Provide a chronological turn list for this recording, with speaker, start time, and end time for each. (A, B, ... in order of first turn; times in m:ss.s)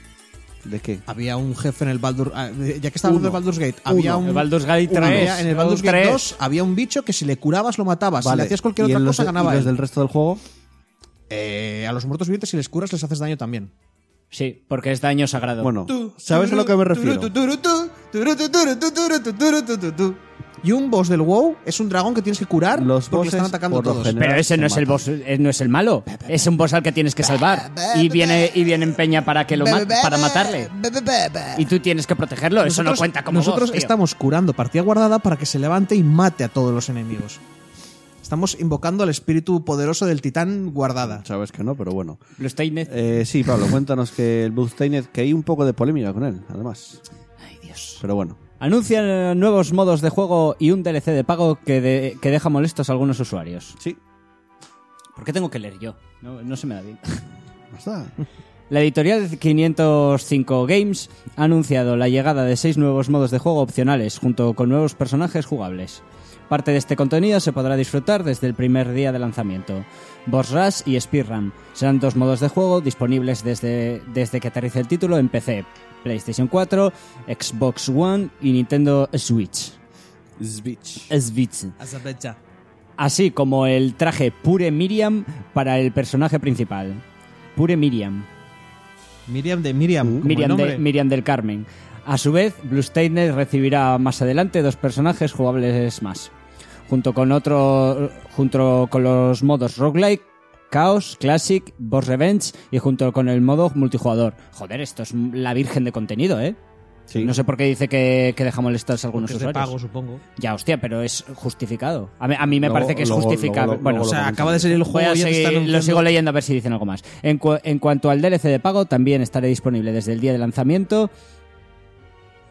0:00.6-0:01.0 A
0:01.1-0:09.7 B
0:03.1-0:04.2 A
0:04.1-0:06.3 C
0:04.9-0:05.4 A
0:08.2-0:10.4 A
0:11.3-0:13.7 B
0:14.3-0:15.7 C
0:15.6-0:17.3 A
0:15.9-0:24.2 B
0:22.7-0:25.1 A
0:24.2-0:30.7 C
0:26.2-0:26.4 B
0:27.4-0:28.8 B
0:29.5-0:31.7 B
0:31.6-0:33.9 C
0:32.6-0:37.4 B
0:38.2-0:41.2 B
0:41.0-0:42.2 A
0:42.4-0:42.9 C
0:42.9-0:47.0 A
0:47.4-0:48.0 C
0:48.0-0:48.4 A
0:48.6-0:53.8 C
0:55.2-0:57.2 C
0:57.7-0:58.2 A
0:58.7-1:19.8 C
1:20.4-1:21.1 A
1:21.1-1:21.8 C
1:21.8-1:22.4 B
1:23.0-1:27.0 C
1:27.6-1:28.3 C
1:29.3-1:30.8 B
1:30.2-1:36.3 C
1:36.9-1:46.6 C
1:47.1-1:47.4 A
1:47.2-1:49.7 C
1:49.2-1:50.2 B
1:50.4-1:54.2 C
1:52.6-1:54.8 A
1:53.8-1:56.1 B
1:54.8-2:01.1 C